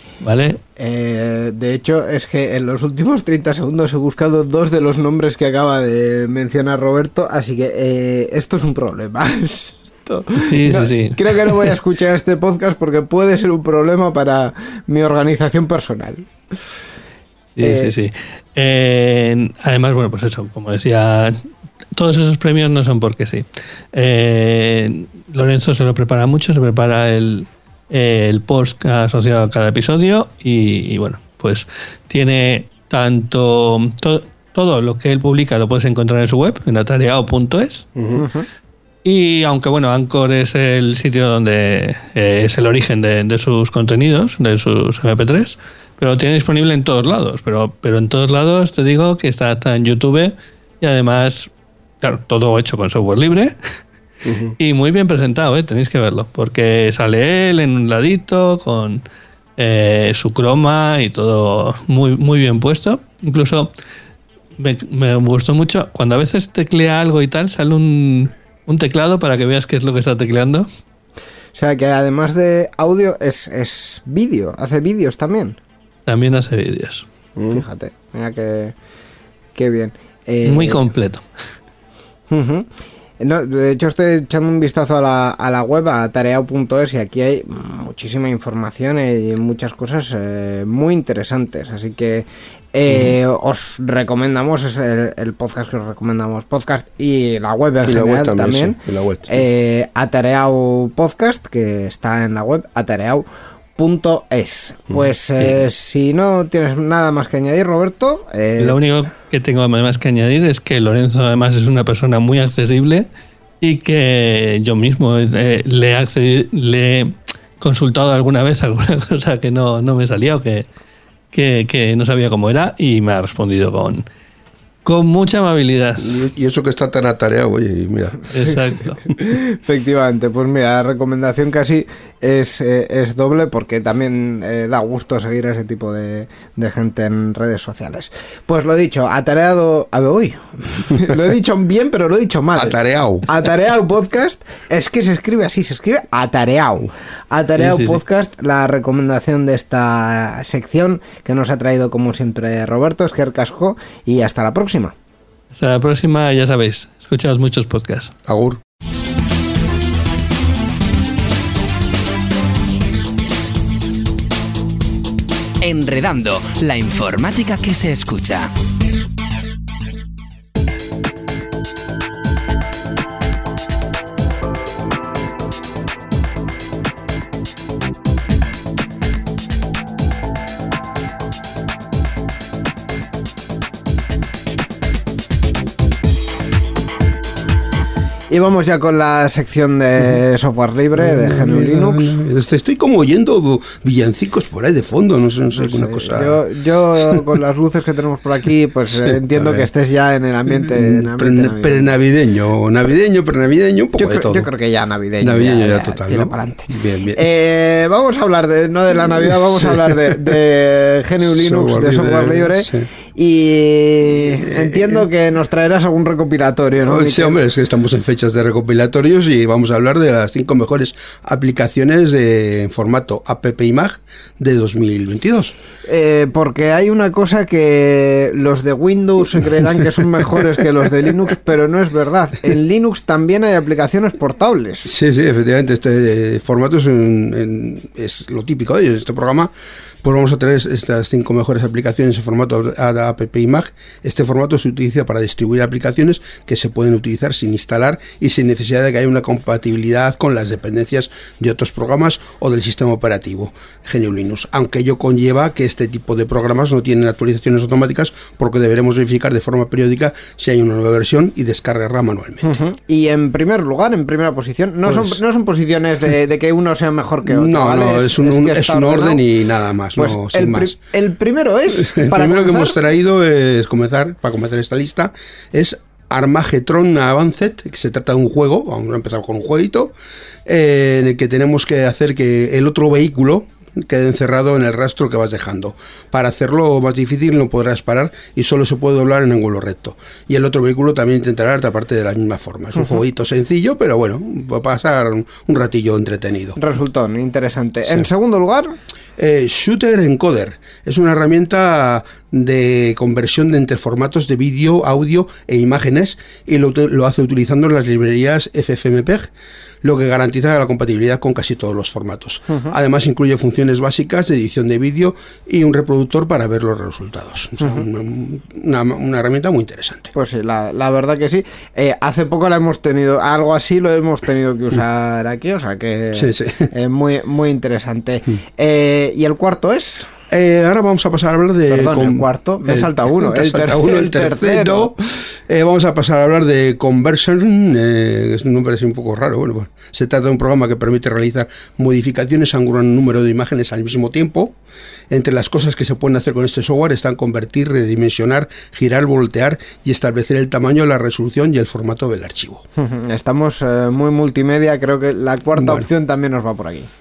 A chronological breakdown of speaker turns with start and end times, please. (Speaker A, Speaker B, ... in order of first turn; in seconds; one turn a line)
Speaker A: 0.2-0.6
Speaker B: 0.8-16.3
Speaker A: 10.5-11.7
Speaker A: 17.6-21.4
Speaker B: 17.6-17.9
Speaker A: 21.9-37.9
Speaker C: 38.0-38.2
Speaker B: 38.2-38.5
Speaker A: 39.0-51.5
Speaker A: 52.0-53.6
Speaker C: 54.2-54.5
Speaker A: 54.6-59.0
Speaker A: 59.6-63.7
Speaker A: 64.6-70.7
Speaker B: 71.5-75.6
Speaker A: 76.1-77.1
Speaker C: 77.4-77.6
Speaker B: 77.5-78.8
Speaker B: 79.5-80.9
Speaker A: 80.5-81.3
Speaker B: 82.3-82.7
Speaker B: 83.2-103.2
Speaker C: 92.9-93.1
Speaker C: 97.8-99.4
Speaker B: 103.8-108.8
Speaker A: 108.6-113.1
Speaker A: 113.6-120.7
Speaker A: 121.3-124.1
Speaker A: 124.8-126.1
Speaker C: 126.0-128.3
Speaker A: 128.3-129.0
Speaker B: 129.2-154.9
Speaker C: 142.6-143.3
Speaker A: 147.6-148.0
Speaker A: 155.5-158.1
Speaker C: 158.3-158.6
Speaker D: 165.6-168.5
Speaker B: 188.3-192.2
Speaker C: 191.0-196.4
Speaker B: 195.6-201.9
Speaker C: 199.1-199.7
Speaker C: 200.8-204.5
Speaker B: 204.0-217.3
Speaker C: 205.2-207.2
Speaker C: 211.4-212.9
Speaker C: 214.5-215.1
Speaker C: 216.9-225.6
Speaker B: 225.9-234.9
Speaker C: 234.9-239.5
Speaker C: 240.0-262.5
Speaker B: 262.4-269.2
Speaker C: 264.9-265.2
Speaker C: 267.3-270.8
Speaker B: 269.9-272.8
Speaker C: 271.8-279.9
Speaker C: 280.5-296.6
Speaker B: 296.6-298.8
Speaker C: 299.2-309.3
Speaker C: 309.8-320.1
Speaker B: 320.1-330.1
Speaker C: 326.1-326.7
Speaker C: 330.3-344.6
Speaker B: 331.7-334.9
Speaker C: 345.1-352.6
Speaker B: 352.8-356.9
Speaker C: 355.6-355.9